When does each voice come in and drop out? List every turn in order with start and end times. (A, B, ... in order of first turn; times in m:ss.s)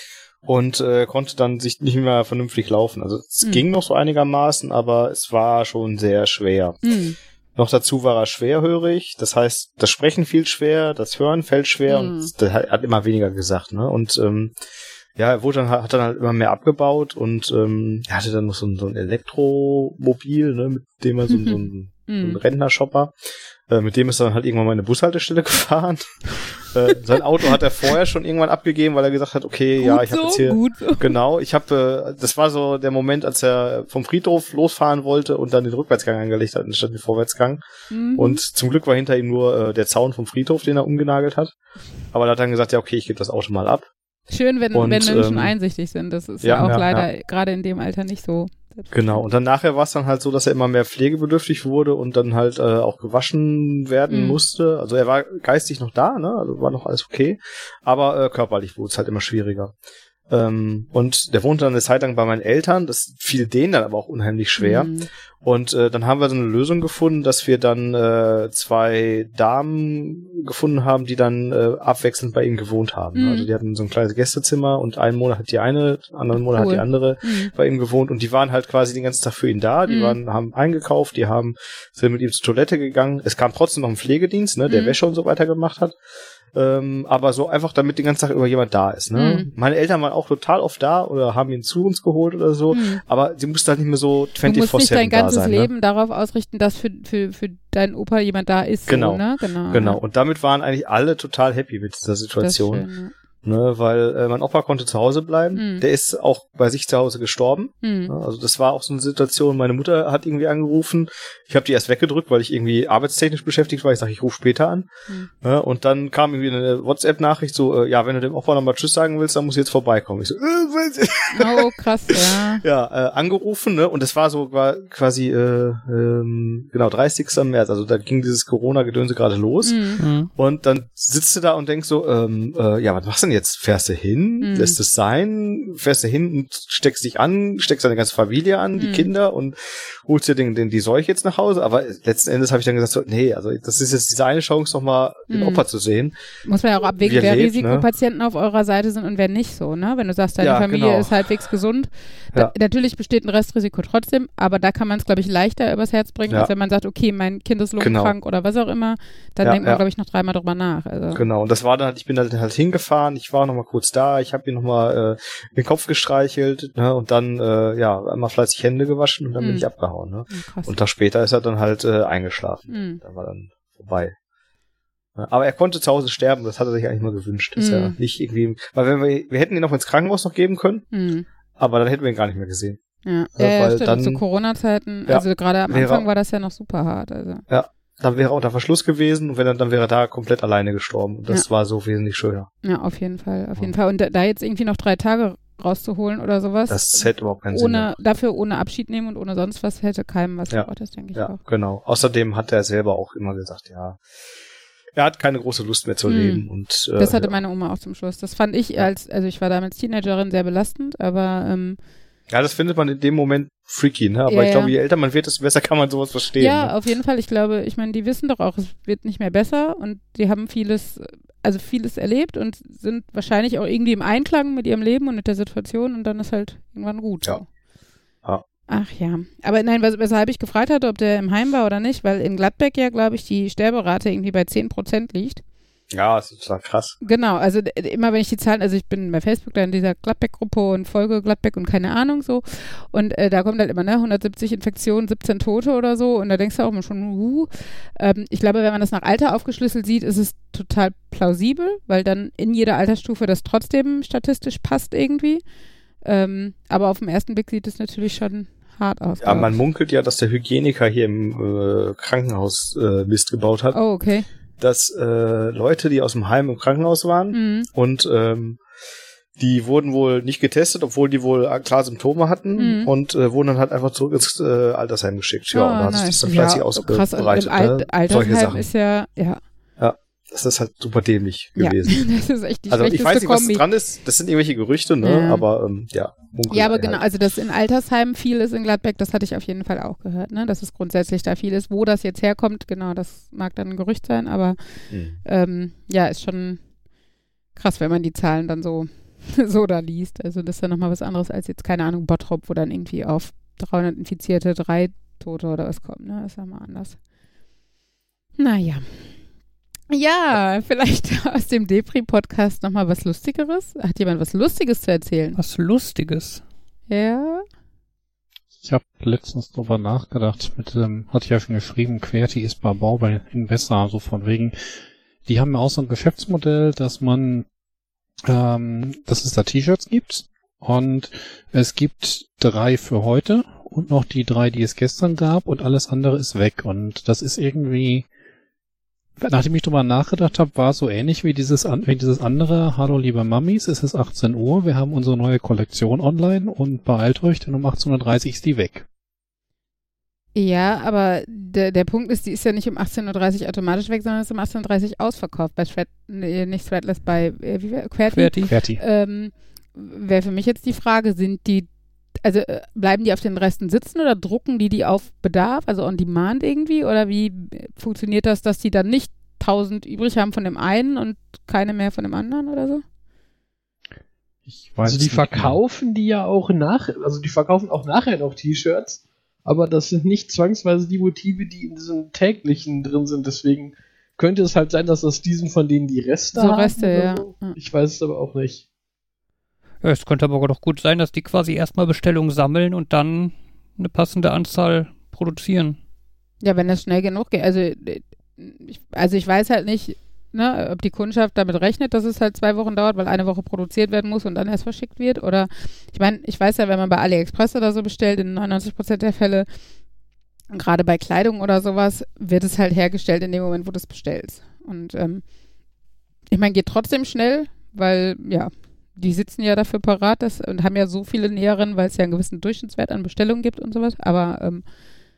0:00.4-0:06.8 A
0:06.8-0:07.2 B
0:07.6-0:14.6 A
0:11.9-0:12.3 B
0:15.1-0:23.1 A
0:22.1-0:22.4 B
0:23.7-0:37.6 A
0:29.8-0:31.2 B
0:37.9-0:38.4 B
0:38.1-0:41.5 A
0:42.1-0:43.9 A
0:44.3-0:49.2 B
0:44.7-0:45.5 A
0:46.4-0:47.1 A
0:48.9-0:59.7 A
0:54.1-0:54.4 B
1:00.3-1:26.0 A
1:04.6-1:05.1 B
1:13.1-1:13.5 B
1:16.4-1:17.5 B
1:19.9-1:20.2 B
1:24.7-1:25.0 B
1:26.5-1:35.7 A
1:29.1-1:29.5 B
1:32.7-1:33.0 B
1:34.4-1:40.0 B
1:38.9-1:42.8 A
1:42.4-1:43.1 B
1:43.4-1:54.9 A
1:45.5-1:45.8 B
1:47.8-1:48.1 B
1:55.4-2:09.8 A
2:01.3-2:02.6 B
2:09.6-2:10.0 B
2:10.0-2:10.3 C
2:10.3-2:26.1 A
2:14.4-2:14.8 B
2:18.8-2:19.1 B
2:25.3-2:25.6 B
2:26.4-2:41.2 B
2:27.0-2:27.8 A
2:30.4-2:31.2 A
2:37.8-2:38.1 A
2:39.4-2:39.8 A
2:41.1-2:54.2 A
2:49.4-2:49.7 B
2:50.3-2:50.7 B
2:52.7-2:53.0 B
2:55.2-3:00.9 A
2:57.6-2:57.9 B
3:00.9-3:01.2 B
3:01.6-3:02.8 A
3:03.0-3:07.4 B
3:03.4-3:04.2 A
3:05.1-3:06.0 A
3:07.5-3:12.5 A
3:12.6-3:21.4 B
3:16.7-3:17.9 A
3:20.5-3:24.0 A
3:25.0-3:27.4 A
3:26.1-3:26.4 B
3:27.0-3:31.8 B
3:32.3-3:36.7 A
3:34.3-3:34.7 B
3:36.4-3:47.5 B
3:48.7-3:55.4 B
3:55.9-3:56.9 A
3:57.0-4:15.4 B
4:16.0-4:19.5 B
4:19.2-4:23.8 A
4:23.7-4:24.2 B
4:24.6-4:28.6 A
4:27.3-4:27.7 B
4:29.4-4:38.7 A
4:32.6-4:32.9 B
4:35.5-4:39.4 B
4:39.8-4:42.1 A
4:41.6-4:43.6 B
4:42.7-4:47.0 A
4:45.0-4:45.4 B
4:46.5-4:54.6 B
4:54.9-4:55.2 A
4:55.2-4:56.6 B
4:57.5-5:07.0 B
5:08.4-5:09.0 B
5:09.9-5:15.4 B
5:15.4-5:16.4 C
5:16.9-5:17.4 B
5:18.6-5:24.7 D
5:25.2-5:27.4 D
5:28.2-5:38.1 D
5:39.2-5:48.8 D
5:50.3-6:01.7 B
5:58.1-5:58.5 C
5:58.5-5:58.8 D
6:02.2-6:12.8 B
6:14.5-6:15.6 D
6:14.8-6:28.6 E
6:26.3-6:27.6 B
6:29.8-6:35.8 C
6:36.4-6:49.5 B
6:50.5-6:55.2 B
6:56.3-7:04.6 B